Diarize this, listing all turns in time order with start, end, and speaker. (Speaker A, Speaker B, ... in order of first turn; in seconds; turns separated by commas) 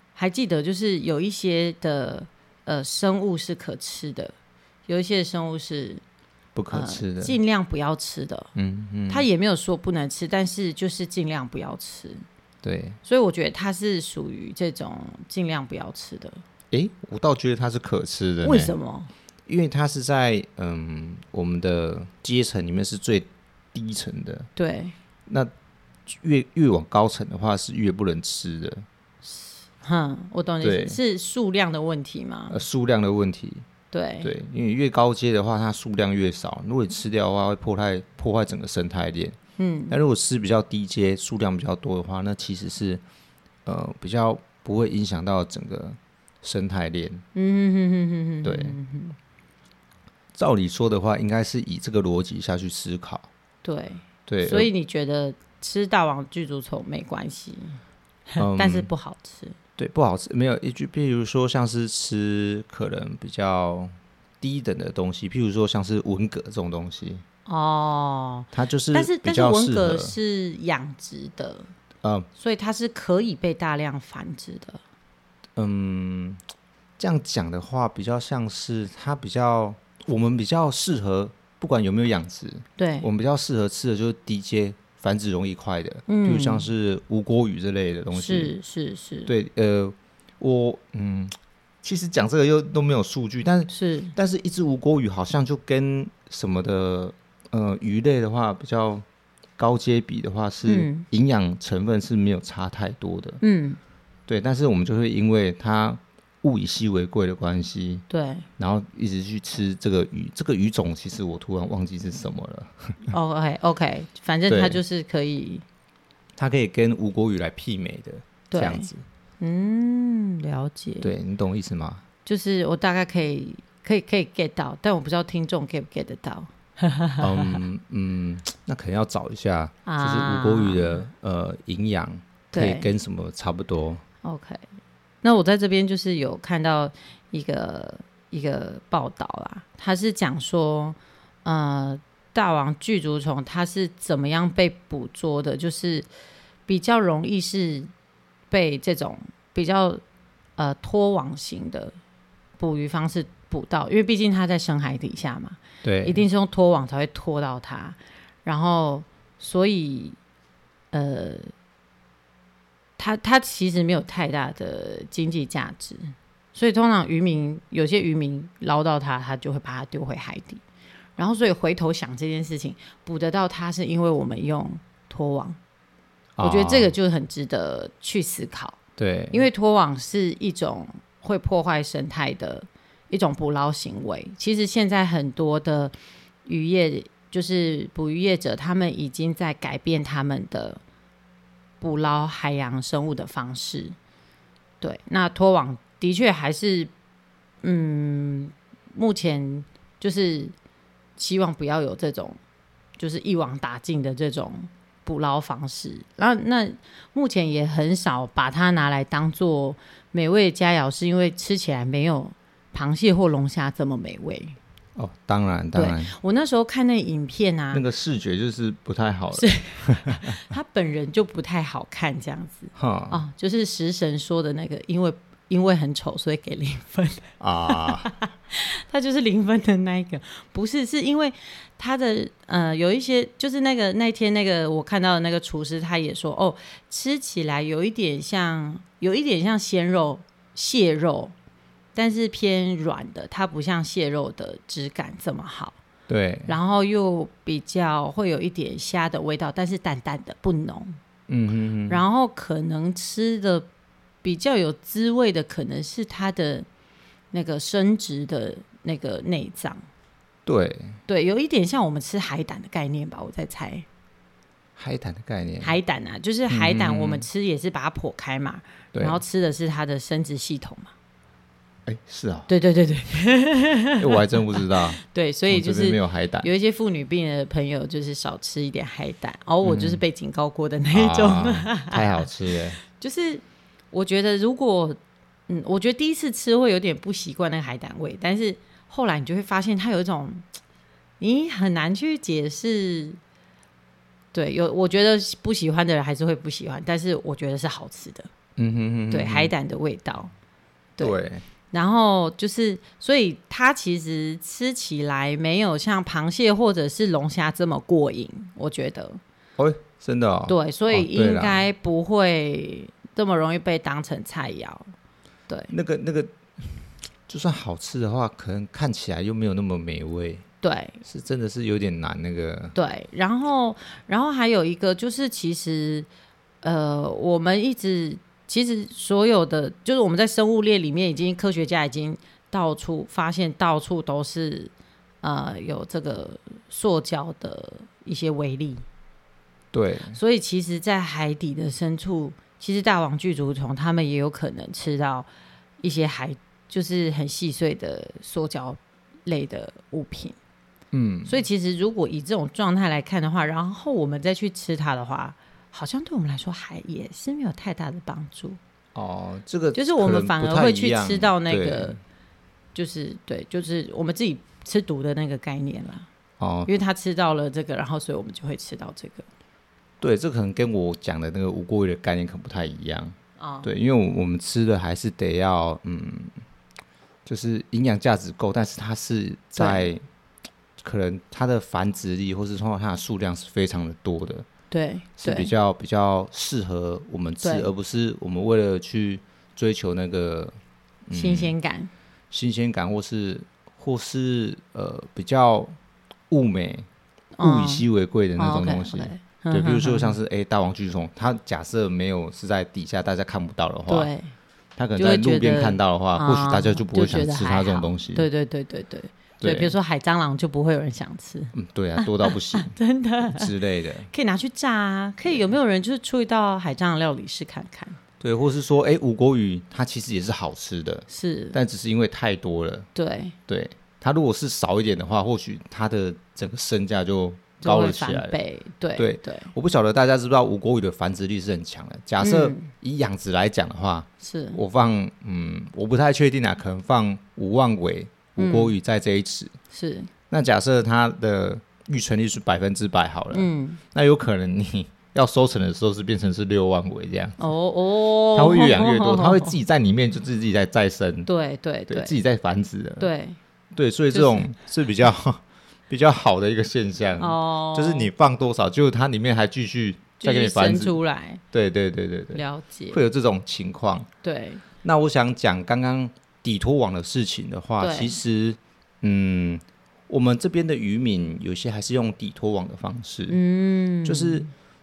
Speaker A: 0.2-4.3, Speaker A: 4.9-6.0, Speaker B: 6.6-7.4, Speaker A: 6.7-8.5, Speaker B: 8.6-9.3, Speaker A: 9.1-12.2, Speaker B: 12.6-13.0, Speaker A: 13.0-16.4, Speaker B: 16.7-18.7, Speaker A: 18.4-19.1, Speaker B: 19.5-24.5, Speaker A: 24.6-24.9, Speaker B: 26.1-28.9, Speaker A: 29.2-32.6, Speaker B: 30.6-31.0, Speaker B: 32.5-33.7, Speaker A: 33.9-34.3, Speaker B: 34.2-39.4, Speaker A: 39.6-40.0, Speaker B: 39.9-43.0, Speaker B: 43.6-47.2, Speaker A: 47.4-49.2, Speaker B: 48.4-48.8, Speaker B: 50.3-53.3, Speaker A: 53.6-57.8, Speaker B: 54.3-54.7, Speaker A: 58.3-59.6, Speaker B: 58.4-58.9, Speaker B: 59.8-67.2, Speaker A: 67.5-71.7, Speaker B: 68.5-70.2, Speaker B: 72.0-72.3, Speaker A: 72.4-74.8, Speaker B: 75.6-76.4, Speaker B: 77.0-88.5, Speaker A: 82.8-83.1, Speaker A: 86.1-86.7, Speaker A: 88.1-89.3, Speaker B: 89.3-99.0, Speaker A: 93.7-94.1, Speaker B: 99.6-103.4, Speaker A: 100.7-101.0, Speaker A: 103.4-103.8, Speaker B: 104.3-108.0, Speaker A: 108.1-108.5, Speaker B: 108.6-113.1, Speaker A: 113.1-115.7, Speaker B: 114.5-114.8, Speaker B: 116.4-119.0, Speaker A: 118.5-118.9, Speaker A: 119.4-121.1, Speaker B: 121.0-122.0, Speaker A: 122.3-127.6, Speaker B: 127.2-134.0, Speaker A: 129.9-131.0, Speaker A: 132.5-132.9, Speaker A: 134.2-134.6, Speaker A: 135.2-146.1, Speaker A: 146.7-147.9, Speaker A: 148.5-150.0, Speaker A: 150.6-151.9, Speaker A: 152.6-160.2, Speaker B: 155.8-156.2, Speaker A: 160.9-161.5, Speaker A: 163.0-170.6, Speaker A: 171.2-175.6, Speaker B: 176.4-176.9, Speaker A: 176.4-178.8, Speaker B: 179.0-179.4, Speaker A: 179.3-185.9, Speaker A: 186.4-190.8, Speaker A: 191.8-194.0, Speaker A: 194.8-196.9, Speaker A: 197.6-200.6, Speaker A: 201.2-202.4, Speaker A: 203.0-214.6, Speaker B: 215.0-216.1, Speaker A: 215.8-217.8, Speaker B: 217.7-220.4, Speaker A: 219.3-241.3, Speaker B: 222.8-223.2, Speaker B: 227.4-228.1, Speaker A: 241.9-245.8, Speaker B: 246.1-246.6, Speaker A: 246.5-251.0, Speaker B: 251.3-252.0, Speaker A: 251.9-253.7, Speaker A: 254.2-256.7, Speaker A: 257.3-259.8, Speaker B: 260.5-261.0, Speaker A: 261.1-263.9, Speaker B: 264.8-265.8, Speaker A: 265.6-270.9, Speaker B: 266.5-267.3, Speaker B: 268.9-269.2, Speaker B: 271.9-272.5, Speaker A: 272.5-282.3, Speaker B: 274.0-276.5, Speaker B: 279.6-280.0, Speaker B: 280.9-282.8, Speaker A: 282.9-290.5, Speaker A: 291.2-293.2, Speaker A: 294.3-298.3, Speaker B: 298.6-299.5, Speaker A: 299.1-300.3, Speaker B: 301.0-301.4, Speaker A: 301.7-309.2, Speaker B: 309.6-311.6, Speaker A: 310.5-314.9, Speaker B: 315.7-316.4, Speaker B: 317.3-320.4, Speaker A: 320.6-321.0, Speaker B: 321.0-322.8, Speaker A: 322.8-326.1, Speaker A: 326.6-338.8, Speaker B: 339.7-340.2, Speaker A: 340.1-345.3, Speaker A: 345.8-350.4, Speaker B: 350.9-351.4, Speaker A: 351.3-358.6, Speaker B: 358.9-362.0, Speaker A: 359.8-362.0, Speaker A: 362.7-366.1, Speaker B: 366.4-366.7, Speaker A: 366.7-369.3, Speaker B: 370.0-376.4, Speaker A: 373.4-373.7, Speaker B: 377.3-380.0, Speaker A: 379.6-379.9, Speaker B: 380.8-384.5, Speaker A: 384.7-385.5, Speaker B: 385.2-391.5, Speaker A: 387.4-387.7, Speaker A: 391.1-391.9, Speaker B: 392.3-395.8, Speaker B: 396.3-396.9, Speaker A: 397.4-397.9, Speaker B: 397.4-404.1, Speaker A: 398.4-400.2, Speaker A: 403.9-404.3, Speaker B: 404.8-408.3, Speaker A: 405.0-413.5, Speaker B: 409.4-409.7, Speaker B: 411.5-414.1, Speaker A: 414.1-418.0, Speaker B: 418.2-422.9, Speaker A: 421.1-421.6, Speaker A: 422.9-423.4, Speaker B: 423.5-428.4, Speaker A: 427.6-429.5, Speaker B: 429.0-439.6, Speaker A: 432.2-432.7, Speaker A: 434.2-434.6, Speaker A: 438.4-438.7, Speaker A: 439.7-440.1, Speaker B: 440.3-447.4, Speaker A: 443.3-443.8, Speaker A: 447.4-449.6, Speaker B: 448.3-451.3, Speaker A: 451.3-452.2, Speaker B: 451.9-453.1, Speaker A: 453.0-453.4, Speaker B: 453.8-461.0, Speaker A: 454.1-454.5, Speaker A: 457.2-458.1, Speaker A: 460.2-461.4, Speaker B: 461.5-464.1, Speaker A: 462.3-463.0, Speaker A: 464.2-464.6, Speaker B: 464.8-473.4, Speaker A: 467.8-468.2, Speaker A: 473.3-474.5, Speaker B: 474.1-474.5